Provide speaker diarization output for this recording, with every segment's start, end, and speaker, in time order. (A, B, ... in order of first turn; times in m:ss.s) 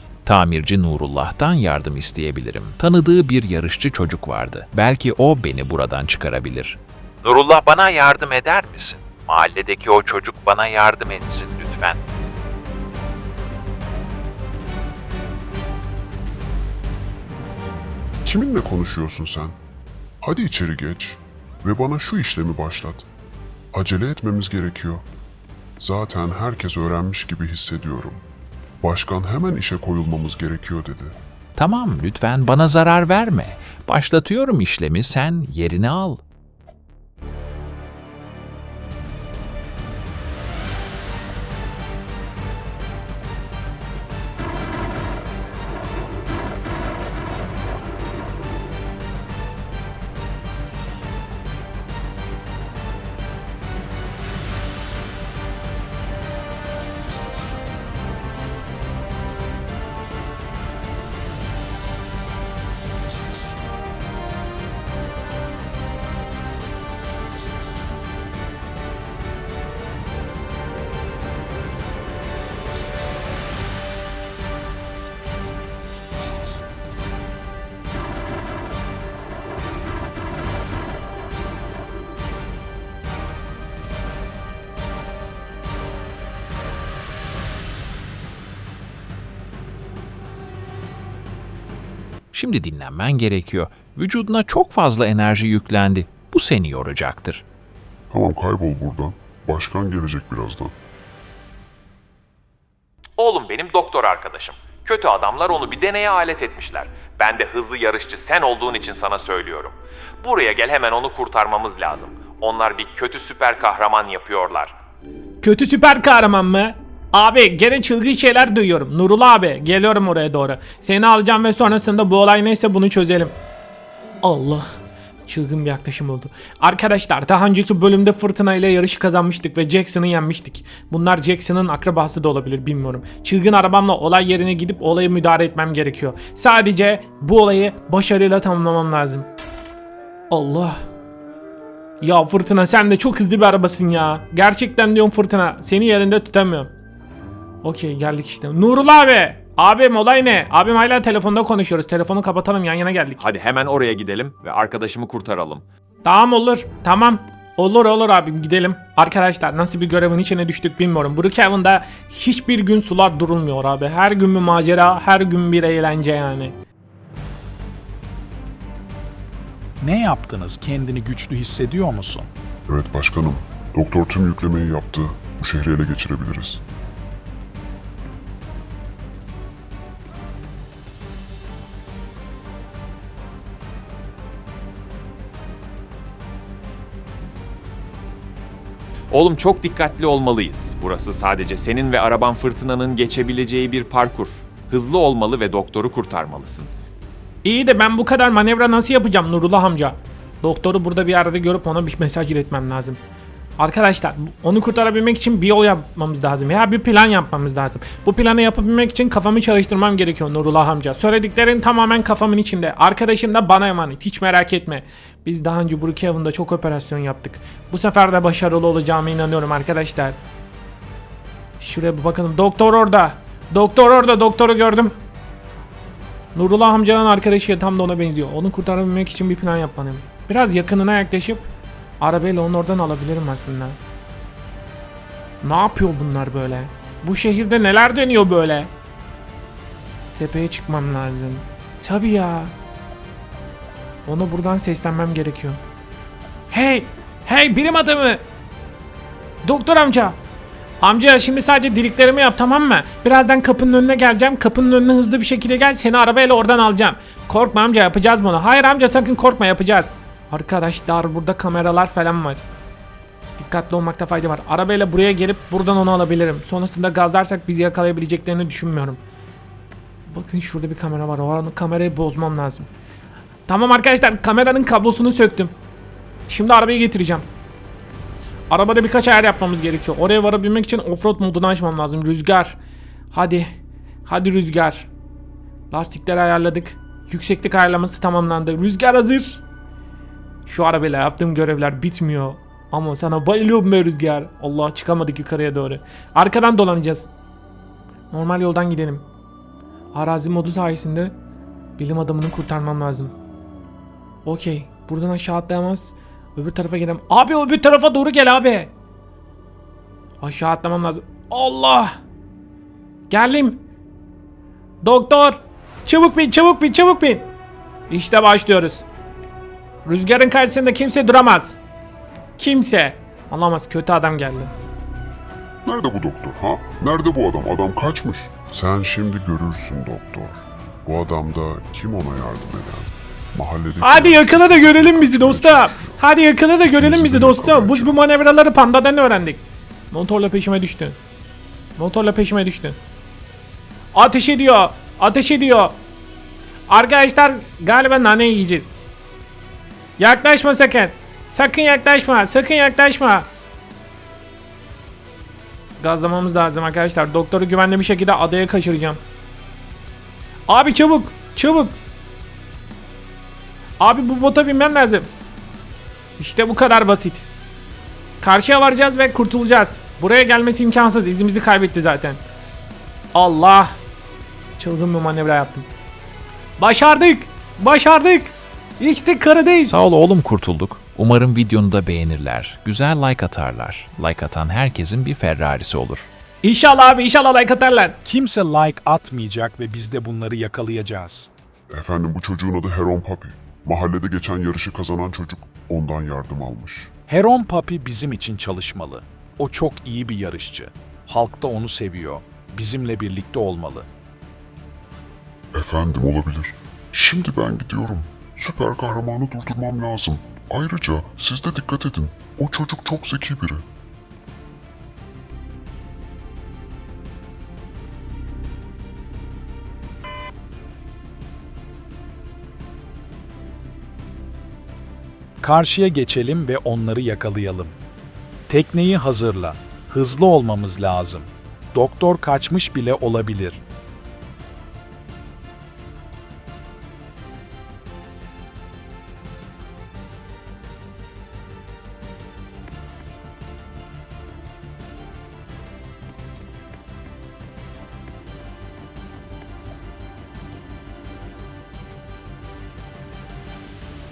0:00.2-0:12.0 A
0:18.2-0:19.6 B
0:20.2-0:23.0 B
0:23.7-0:25.0 B
0:25.8-0:28.2 B
0:28.8-0:31.2 B
0:31.6-0:36.2 A
1:32.3-1:37.4 A
1:38.1-1:40.8 B
1:43.2-1:54.8 C
1:55.4-2:03.3 D
2:04.2-2:04.7 D
2:05.3-2:19.3 D
2:20.3-2:20.8 D
2:22.0-2:26.7 D
2:27.6-2:33.2 D
2:33.2-2:35.6 C
2:36.0-2:46.6 D
2:49.8-2:52.3 E
2:52.7-2:56.6 B
3:09.1-3:16.7 C
3:17.4-3:23.0 D
3:23.6-3:40.2 D
3:41.6-3:45.0 D
3:46.3-3:51.5 D
3:52.0-3:53.8 D
3:55.4-3:58.7 D
4:00.1-4:02.5 D
4:04.1-4:05.6 D
4:06.5-4:08.2 D
4:09.4-4:10.2 D
4:10.8-4:22.4 D
4:23.4-4:29.0 D
4:30.1-4:32.7 D
4:33.5-4:35.5 D
4:36.3-4:37.2 D
4:38.5-4:42.6 D
4:43.1-4:43.5 D
4:44.0-4:44.9 D
4:45.7-4:49.4 D
4:50.5-4:57.1 D
4:58.1-4:59.1 D
4:59.9-5:01.1 D
5:01.8-5:03.1 D
5:04.2-5:08.7 D
5:10.2-5:11.9 D
5:13.1-5:13.6 D
5:14.8-5:17.3 D
5:17.9-5:18.8 D
5:19.8-5:21.6 D
5:22.4-5:24.5 D
5:25.6-5:36.0 B
5:33.8-5:41.0 D
5:36.7-5:37.9 B
5:41.8-5:42.8 D
5:43.9-5:45.8 D
5:46.7-5:48.7 D
5:50.0-5:53.3 D
5:55.8-5:59.0 D
6:00.5-6:01.8 D
6:03.8-6:05.1 D
6:06.2-6:07.3 D
6:08.2-6:12.2 D
6:13.1-6:13.7 D
6:14.6-6:15.7 D
6:16.6-6:19.8 D
6:19.7-6:26.1 A
6:26.4-6:28.0 D
6:28.0-6:31.3 E
6:31.7-6:36.9 B
6:37.1-6:43.9 E
6:45.5-6:53.6 B
7:05.4-7:07.8 E
7:08.5-7:13.6 E